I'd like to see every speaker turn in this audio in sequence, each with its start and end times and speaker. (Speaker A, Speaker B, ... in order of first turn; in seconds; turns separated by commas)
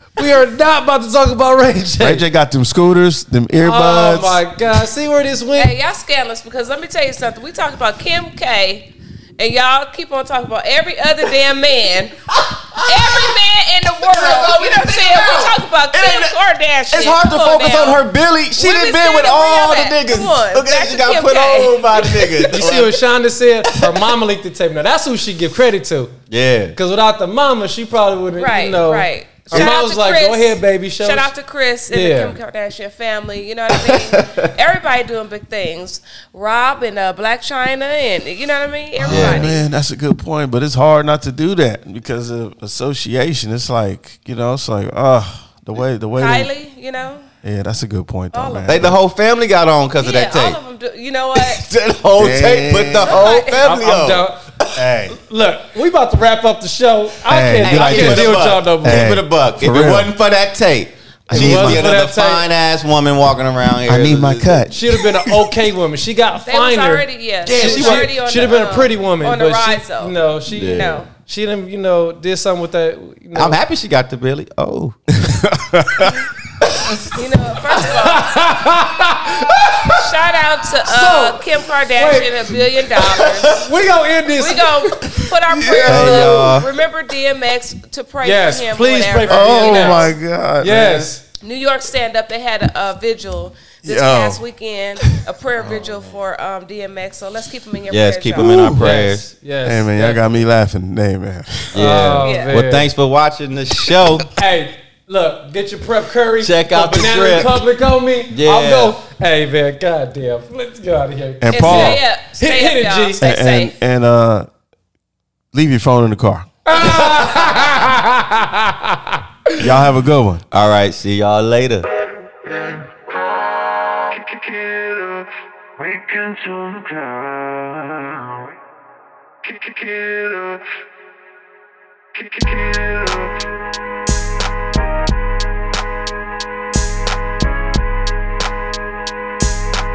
Speaker A: 0.2-2.2, Speaker B: 2.0-4.4, Speaker A: 3.6-5.8, Speaker C: 5.6-12.2, Speaker D: 12.3-13.4, Speaker C: 12.9-18.0, Speaker D: 14.0-23.0, Speaker C: 18.6-22.0, Speaker A: 22.2-26.1, Speaker D: 23.7-24.0, Speaker D: 26.3-26.8, Speaker A: 26.8-31.3, Speaker C: 28.4-39.6, Speaker D: 29.5-29.8, Speaker A: 31.9-32.4, Speaker D: 33.7-34.5, Speaker B: 39.0-46.5, Speaker D: 39.0-39.5, Speaker C: 46.2-47.3, Speaker B: 47.4-49.0, Speaker C: 48.3-48.9, Speaker D: 48.6-50.6, Speaker C: 50.0-51.6, Speaker D: 51.3-54.9, Speaker B: 52.2-53.2, Speaker C: 53.0-53.6, Speaker A: 53.6-54.4, Speaker B: 54.8-55.2, Speaker A: 55.1-59.1, Speaker B: 57.2-60.1, Speaker C: 57.6-58.2, Speaker D: 57.6-64.7, Speaker B: 61.3-61.9, Speaker A: 61.3-62.5, Speaker B: 63.9-65.3, Speaker A: 64.7-73.6, Speaker C: 66.5-71.1, Speaker D: 67.4-68.5, Speaker D: 70.5-71.0, Speaker D: 73.3-75.0, Speaker B: 75.1-76.3, Speaker C: 77.2-78.5, Speaker A: 77.7-80.1, Speaker C: 79.8-83.7, Speaker A: 80.8-82.6, Speaker A: 83.5-84.9, Speaker C: 84.3-90.2, Speaker B: 85.0-86.5, Speaker D: 85.8-86.7, Speaker A: 88.2-91.2, Speaker B: 89.3-91.1, Speaker C: 91.4-98.5, Speaker B: 93.8-94.4, Speaker B: 95.6-96.1, Speaker D: 97.9-99.3, Speaker B: 98.4-98.8, Speaker A: 98.6-100.4, Speaker B: 99.7-101.8, Speaker D: 101.7-104.3, Speaker A: 101.8-102.9, Speaker C: 102.2-102.5, Speaker A: 104.3-113.2, Speaker D: 106.4-107.6, Speaker D: 108.3-108.9, Speaker B: 111.4-112.0, Speaker C: 111.5-113.7, Speaker B: 113.2-114.5, Speaker B: 115.5-116.5, Speaker A: 116.7-119.6, Speaker B: 119.6-120.4, Speaker D: 120.5-121.9, Speaker E: 122.5-128.4, Speaker E: 129.4-130.7, Speaker E: 132.2-133.5